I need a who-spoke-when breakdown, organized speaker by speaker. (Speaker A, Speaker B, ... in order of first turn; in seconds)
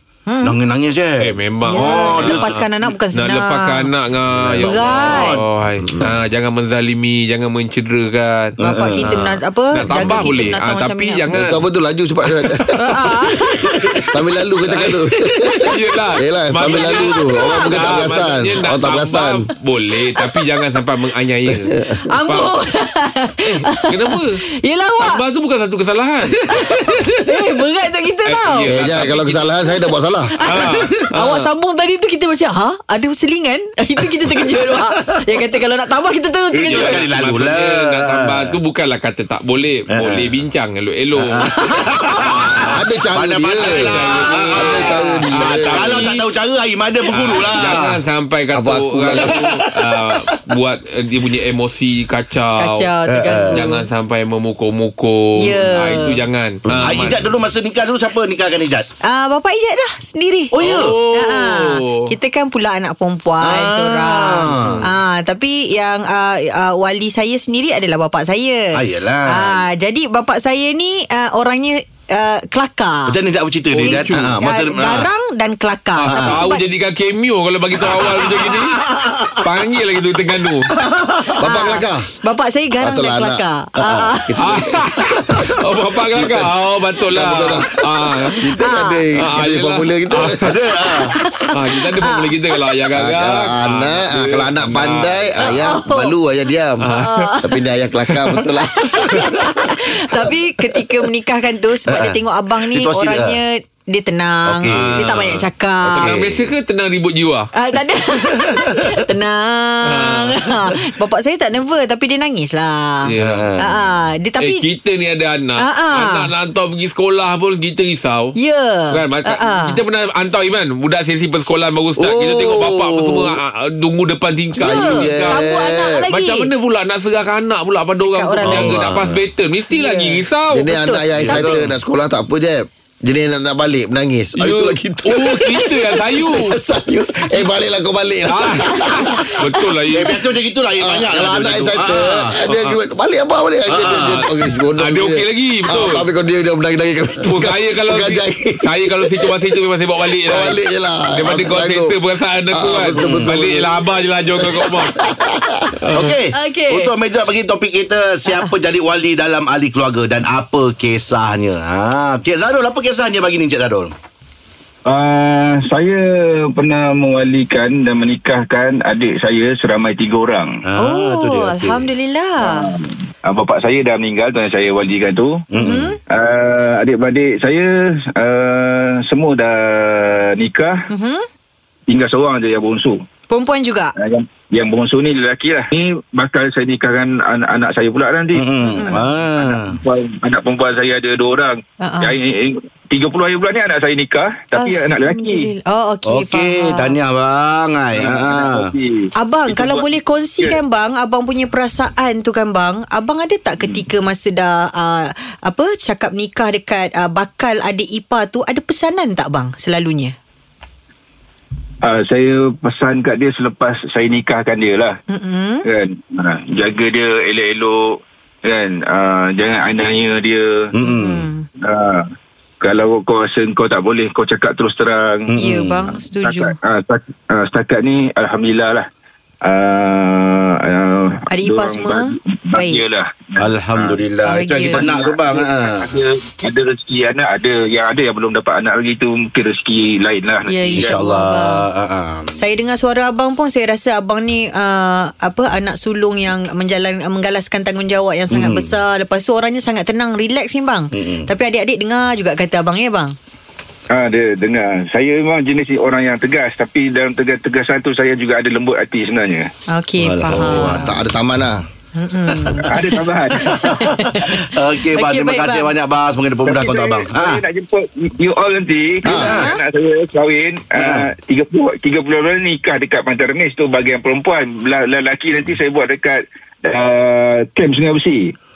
Speaker A: 0.3-0.5, 1.6-3.9, 4.6-5.4, 8.6-11.3, 12.8-14.0, 16.7-17.9, 22.1-25.2, 26.5-28.7, 30.4-37.0, 52.6-53.8, 55.4-56.2, 59.0-73.2, 73.8-76.6, 81.4-84.4, 88.5-89.0, 91.2-92.4, 95.4-96.1, 96.9-97.6, 98.8-106.1, 107.5-113.1, 113.6-114.6, 115.6-116.3, 118.4-119.8, 124.5-126.5, 128.1-128.8, 129.7-131.5, 156.3-156.9, 170.8-172.7, 175.6-176.0, 180.9-181.2, 183.3-183.9, 188.7-189.0, 191.8-192.2, 194.5-196.9, 199.2-210.1, 215.1-215.7, 220.8-221.4, 225.4-226.5, 231.3-232.8, 234.2-234.8, 240.4-241.6, 242.3-253.1, 259.7-260.9, 261.9-262.8, 263.4-265.7, 269.1-269.6
Speaker B: 0.4-2.6, 4.3-5.4, 8.6-9.1, 36.5-38.5, 39.9-40.2, 41.2-48.0, 53.0-53.6, 56.7-58.9, 60.5-61.0, 63.4-64.9, 68.7-69.6, 73.1-75.1, 76.1-76.5, 77.8-79.5, 80.7-81.4, 90.4-91.1, 94.7-95.0, 101.9-103.4, 104.4-105.1, 105.8-106.5, 108.5-108.8, 113.2-113.7, 128.4-129.2, 131.2-131.6, 139.9-142.5, 143.7-144.2, 153.0-153.3, 155.9-163.9, 170.6-171.9, 175.5-175.9, 188.3-189.8, 196.1-198.7, 220.7-221.3, 225.3-225.9, 233.4-235.9, 240.7-242.3, 248.3-248.7, 250.9-251.3, 260.0-261.0, 263.4-267.4, 269.1-269.5, 270.8-271.1
Speaker C: 1.2-2.6, 3.1-11.6, 12.4-12.8, 14.7-22.5, 23.4-24.4, 25.0-27.1, 28.2-29.7, 30.4-31.5, 36.6-42.8, 43.6-46.2, 47.1-52.9, 53.5-57.3, 60.6-62.1, 73.8-74.3, 76.0-78.8, 79.4-80.7, 84.4-88.4, 89.1-90.5, 91.5-95.6, 96.8-97.3, 104.6-107.5, 109.8-110.8, 113.1-113.5, 114.4-118.3, 118.9-125.4, 126.1-130.7, 134.4-136.6, 138.3-140.2, 143.9-146.0, 147.2-150.6, 151.1-155.0, 155.8-156.2
Speaker D: 5.8-6.1, 9.9-10.1, 11.3-12.8, 14.1-15.6, 16.1-19.5, 21.5-21.9, 28.7-30.3, 42.6-46.0, 48.5-49.6, 81.3-82.1, 82.8-85.5, 86.1-86.6, 87.1-90.4, 92.9-96.8, 97.4-99.4, 122.0-123.4, 124.6-126.0, 130.5-139.7, 140.8-149.3, 150.2-151.9, 152.5-155.8, 260.3-261.6, 269.1-269.3
Speaker E: 164.8-170.6, 172.4-175.4, 176.1-180.8, 181.9-183.0, 184.0-195.5, 198.0-199.9, 211.8-215.0, 215.6-220.7, 221.6-222.1, 222.6-225.3, 226.2-228.9, 229.4-234.0, 234.6-241.0, 253.9-259.5, 262.6-263.7, 266.4-278.3